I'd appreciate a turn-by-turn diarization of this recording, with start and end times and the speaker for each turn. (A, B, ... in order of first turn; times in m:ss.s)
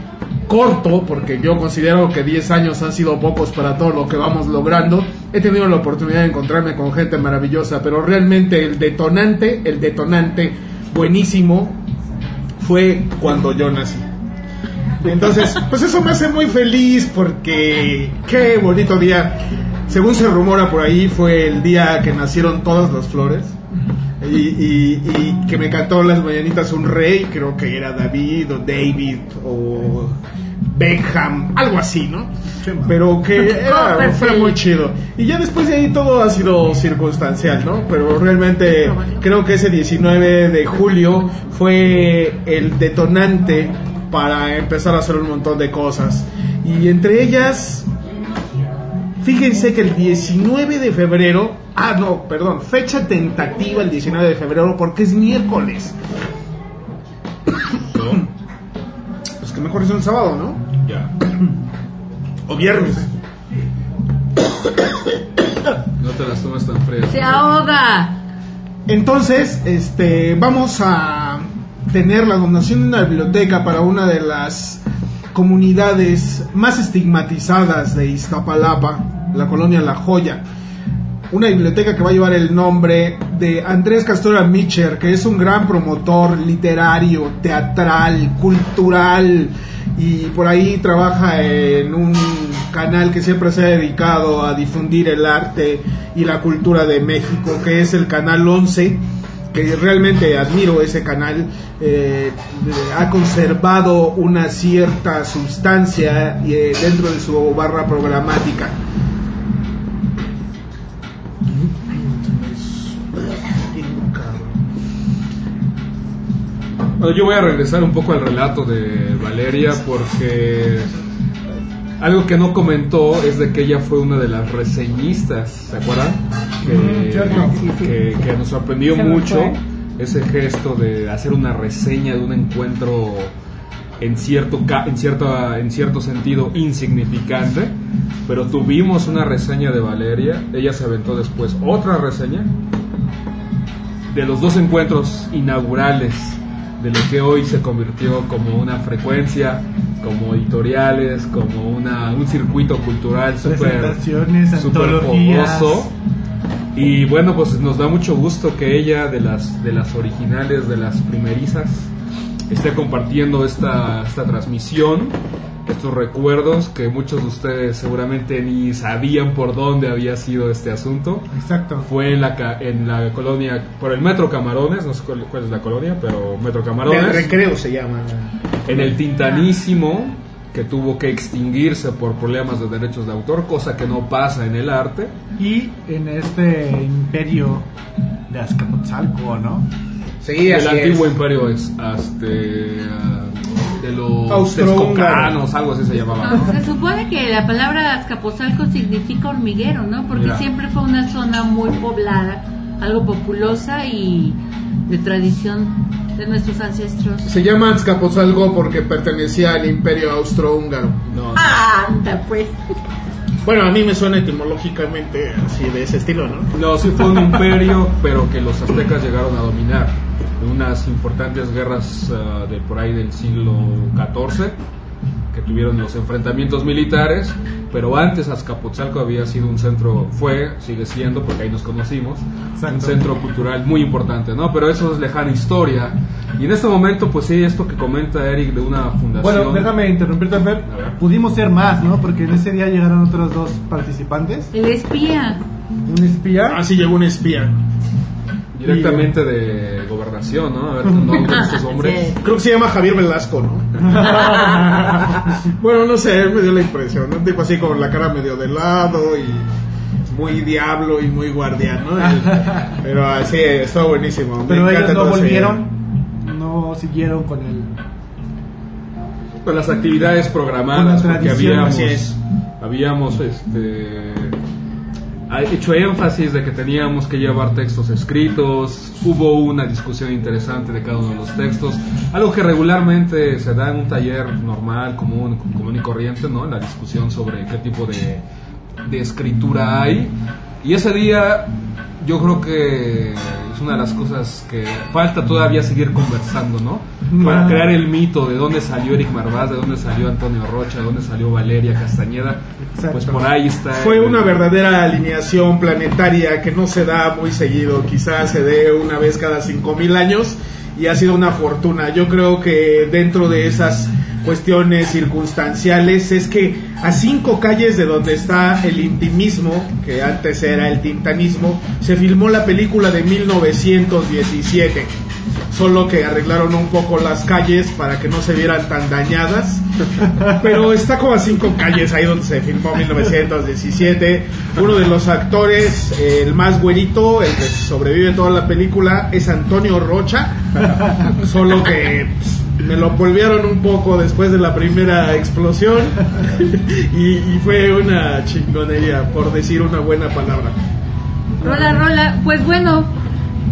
0:00.5-0:11.8 A
0:12.6-0:14.0 A
0:15.0-0:23.6 A
0:24.2-0:30.2 A
0:30.7-0:32.3 A
0:32.6-0:33.0 B
0:32.9-0:47.9 A
0:33.4-0:34.6 C
0:38.6-0:39.2 C
0:49.2-0:56.0 A
0:57.9-0:58.2 D
0:59.4-1:00.6 A
1:00.8-1:01.1 D
1:02.5-1:03.1 A
1:06.0-1:07.6 D
1:07.1-1:08.2 C
1:08.9-1:14.8 A
1:15.3-1:20.4 A
1:21.3-1:48.8 A
1:51.5-1:54.6 A
1:57.0-2:00.9 D
2:02.0-2:13.3 D
2:06.6-2:07.6 B
2:07.4-2:07.9 C
2:09.1-2:09.5 C
2:14.0-2:17.8 D
2:18.3-2:22.5 D
2:24.1-2:34.0 D
2:33.4-2:35.9 B
2:34.6-2:35.9 D
2:36.8-2:41.9 D
2:42.5-2:45.2 D
2:45.7-2:57.4 D
2:51.3-2:51.9 B
2:56.9-2:58.3 A
2:58.7-3:05.1 D
3:05.4-3:07.7 B
3:08.3-3:09.7 B
3:10.2-3:11.2 A
3:10.4-3:16.6 D
3:14.3-3:15.4 A
3:16.2-3:27.3 C
3:20.1-3:20.5 D
3:27.2-3:31.0 A
3:31.1-3:31.6 D
3:31.3-3:32.6 C
3:33.4-3:36.5 A
3:36.5-3:44.6 D
3:45.3-3:59.8 D
3:52.6-3:53.0 B
3:59.2-4:04.5 B
4:00.7-4:01.0 D
4:04.5-4:05.4 C
4:05.9-4:06.6 B
4:06.5-4:07.6 A
4:08.5-4:12.2 D
4:08.6-4:09.1 B
4:10.8-4:11.2 B
4:11.3-4:12.2 C
4:12.2-4:14.3 A
4:14.0-4:15.1 B
4:15.1-4:19.5 A
4:20.1-4:25.6 A
4:22.0-4:22.8 B
4:24.5-4:27.7 B
4:29.4-4:34.4 D
4:30.8-4:31.8 B
4:31.0-4:32.1 A
4:35.3-4:48.2 D
4:48.8-5:04.4 D
4:57.1-4:57.8 B
5:02.6-5:03.3 B
5:03.7-5:24.9 A
5:25.5-5:50.6 A
5:51.4-5:52.9 C